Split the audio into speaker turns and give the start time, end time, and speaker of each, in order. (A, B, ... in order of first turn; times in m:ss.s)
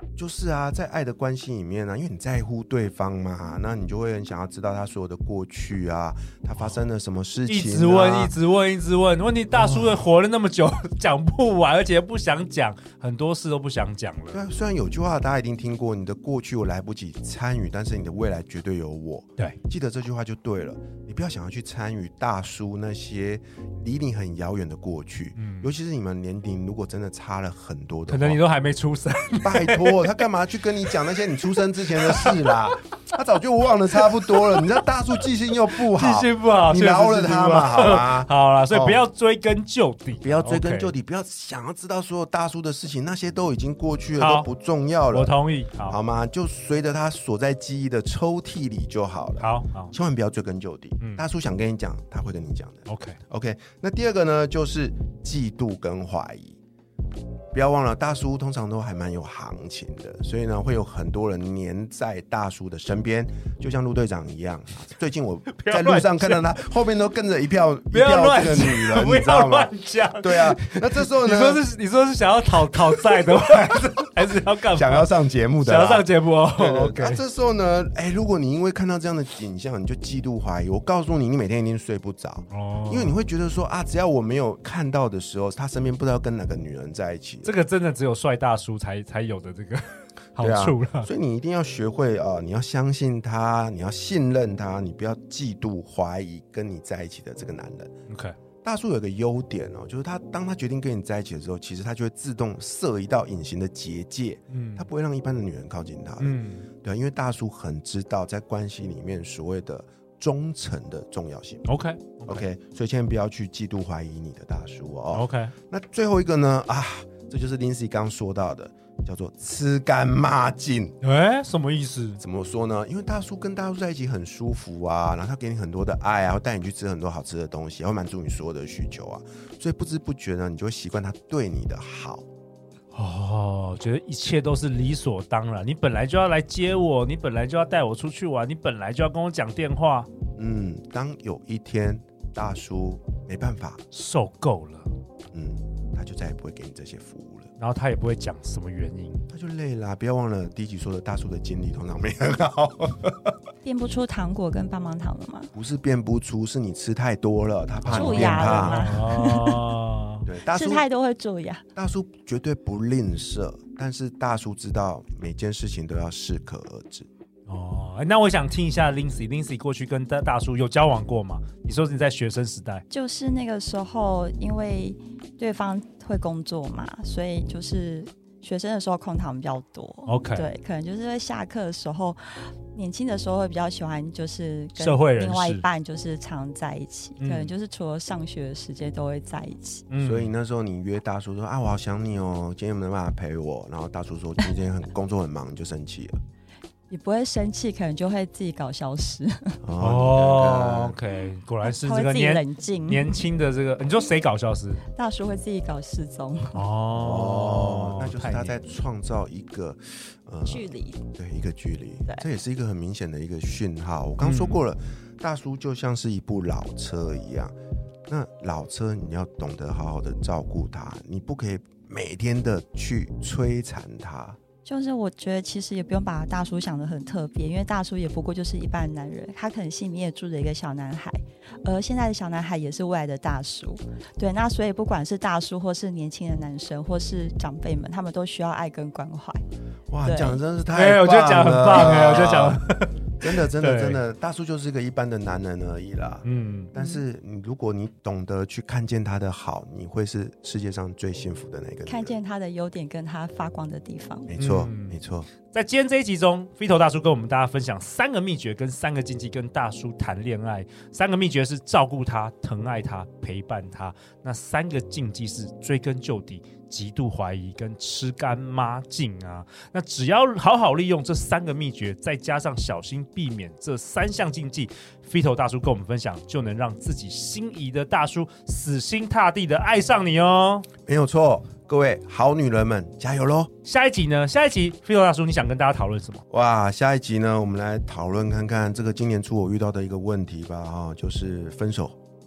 0:00.2-0:08.3 A
0:07.5-0:14.4 B
0:09.5-0:10.0 A
0:14.3-0:28.4 A
0:25.4-0:25.7 B
0:28.1-0:30.1 B
0:29.4-0:39.1 A
0:32.0-0:32.3 B
0:34.3-0:34.7 B
0:35.9-0:40.9 B
0:40.2-0:45.3 A
0:44.2-0:44.5 B
0:45.1-0:46.0 B
0:45.9-0:56.6 A
0:49.4-0:49.9 B
0:52.9-0:53.2 B
0:57.5-1:11.6 A
1:05.5-1:06.4 B
1:07.9-1:15.1 B
1:14.7-1:27.5 A
1:15.6-1:17.2 B
1:22.5-1:23.2 B
1:27.4-1:31.1 B
1:30.4-1:37.9 A
1:38.1-1:38.3 B
1:38.6-1:51.6 A
1:44.5-1:44.9 B
1:46.2-1:46.6 B
1:51.6-1:52.4 B
1:52.2-2:00.9 A
1:55.1-1:55.5 B
2:01.0-2:02.2 B
2:02.2-2:12.2 A
2:12.9-2:20.1 B
2:20.4-2:23.8 A
2:23.9-2:24.9 B
2:25.3-2:27.5 A
2:27.6-2:29.2 B
2:29.3-2:33.3 A
2:33.6-2:35.5 C
2:35.5-2:39.0 A
2:37.8-2:40.2 B
2:37.9-2:39.6 C
2:40.2-2:40.9 A
2:40.5-2:41.6 C
2:41.8-2:47.1 A
2:47.5-2:52.8 B
2:52.9-3:09.8 C
3:00.0-3:00.5 B
3:04.8-3:05.6 B
3:07.2-3:07.5 B
3:09.9-3:10.3 B
3:10.0-3:16.2 A
3:16.9-3:19.6 C
3:19.6-3:21.0 A
3:19.8-3:24.8 B
3:21.6-3:23.1 C
3:24.9-3:26.6 C
3:26.5-3:28.6 B
3:26.9-3:37.5 A
3:30.4-3:31.0 C
3:34.2-3:34.6 B
3:38.1-3:44.4 A
3:44.6-3:59.4 C
3:59.9-4:02.6 A
4:00.0-4:00.4 C
4:00.7-4:04.0 B
4:03.2-4:12.2 A
4:06.2-4:06.7 B
4:06.8-4:07.0 C
4:11.8-4:14.3 C
4:14.3-4:15.3 A
4:14.4-4:15.0 B
4:15.5-4:40.7 B
4:40.8-4:43.5 A
4:43.6-4:46.2 B
4:46.3-4:52.0 A